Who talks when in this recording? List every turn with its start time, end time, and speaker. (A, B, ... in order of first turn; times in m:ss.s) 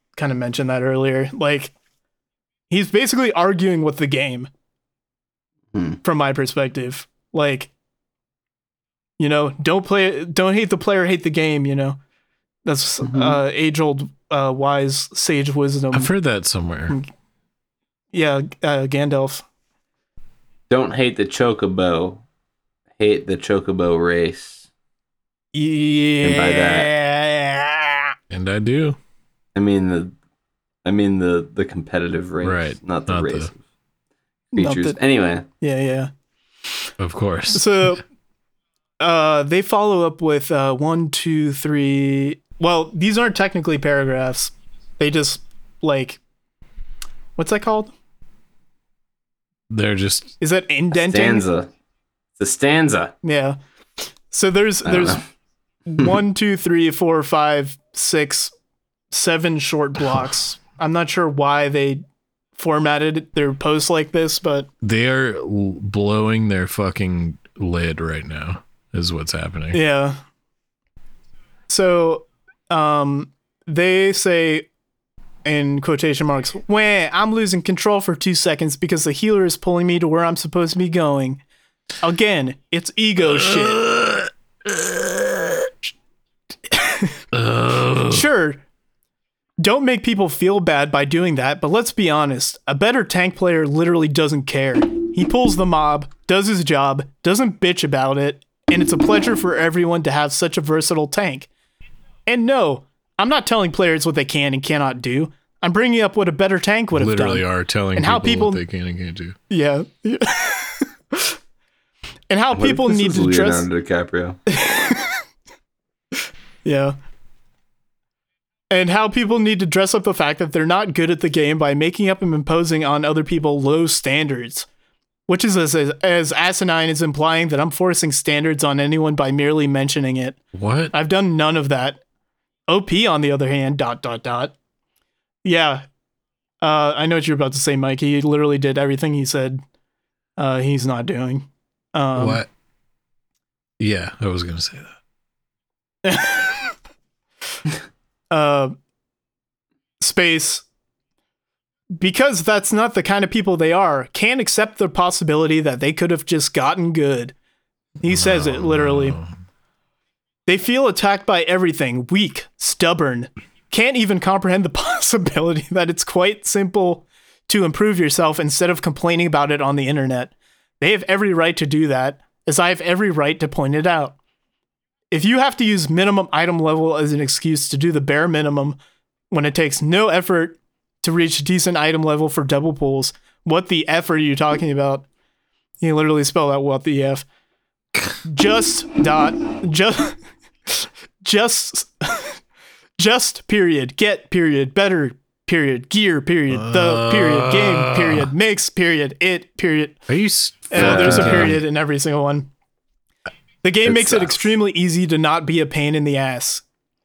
0:00.2-0:01.7 A
0:02.7-0:04.5 A
0:05.7-0:06.0 B
0:06.0-0:07.7 A
0:09.2-0:12.0 A
0:12.6-0:16.1 A
0:13.0-0:13.4 B
0:15.9-0:17.0 C
0:18.1-0:19.4 A
0:20.7-0:22.2 B
0:23.0-0:24.7 B
0:25.5-0:28.1 A
0:26.2-0:26.9 B
0:28.3-0:29.0 C
0:29.6-0:30.1 B
0:30.8-0:33.6 B
0:32.4-0:33.5 C
0:34.5-0:35.5 B
0:34.6-0:35.0 A
0:35.6-0:36.1 A
0:37.0-0:38.0 C
0:37.5-0:38.0 A
0:39.0-0:46.2 A
0:47.4-0:47.9 A
0:49.7-0:50.4 C
0:50.4-0:51.5 A
0:50.9-0:51.7 B
0:52.4-0:53.1 B
0:53.2-0:53.6 A
0:54.3-0:55.2 A
0:54.8-0:55.2 B
0:55.9-0:58.5 A
0:59.1-1:02.0 A
1:02.6-1:04.7 A
1:04.8-1:09.8 C
1:09.7-1:10.2 A
1:11.7-1:14.7 A
1:15.4-1:21.4 A
1:22.0-1:23.8 A
1:23.2-1:25.7 C
1:26.7-1:27.2 A
1:27.3-1:28.3 C
1:28.1-1:28.6 A
1:29.6-1:41.5 A
1:42.3-1:48.6 A
1:46.9-1:49.4 C
1:49.5-1:51.4 A
1:52.3-1:53.7 A
1:52.6-1:54.4 B
1:54.5-1:55.2 A
1:56.6-1:57.0 A
1:58.7-2:04.7 A
2:05.3-2:10.4 A
2:10.6-2:10.9 C
2:10.9-2:12.0 A
2:12.7-2:14.6 A
2:15.4-2:15.8 A
2:16.6-2:19.6 A
2:20.4-2:22.4 A
2:22.2-2:22.5 C
2:23.8-2:25.0 C
2:26.0-2:26.8 A
2:28.3-2:28.8 A
2:30.0-2:30.6 A
2:32.0-2:37.3 A
2:38.0-2:39.2 A
2:38.1-2:39.3 C
2:40.5-2:54.2 A
2:55.1-2:58.8 A
2:59.3-3:05.0 A
3:05.8-3:07.3 A
3:08.2-3:12.4 A
3:13.0-3:20.0 A
3:16.5-3:18.3 C
3:20.1-3:21.6 C
3:20.7-3:22.5 A
3:20.8-3:21.4 B
3:23.6-3:26.6 A
3:23.9-3:24.5 B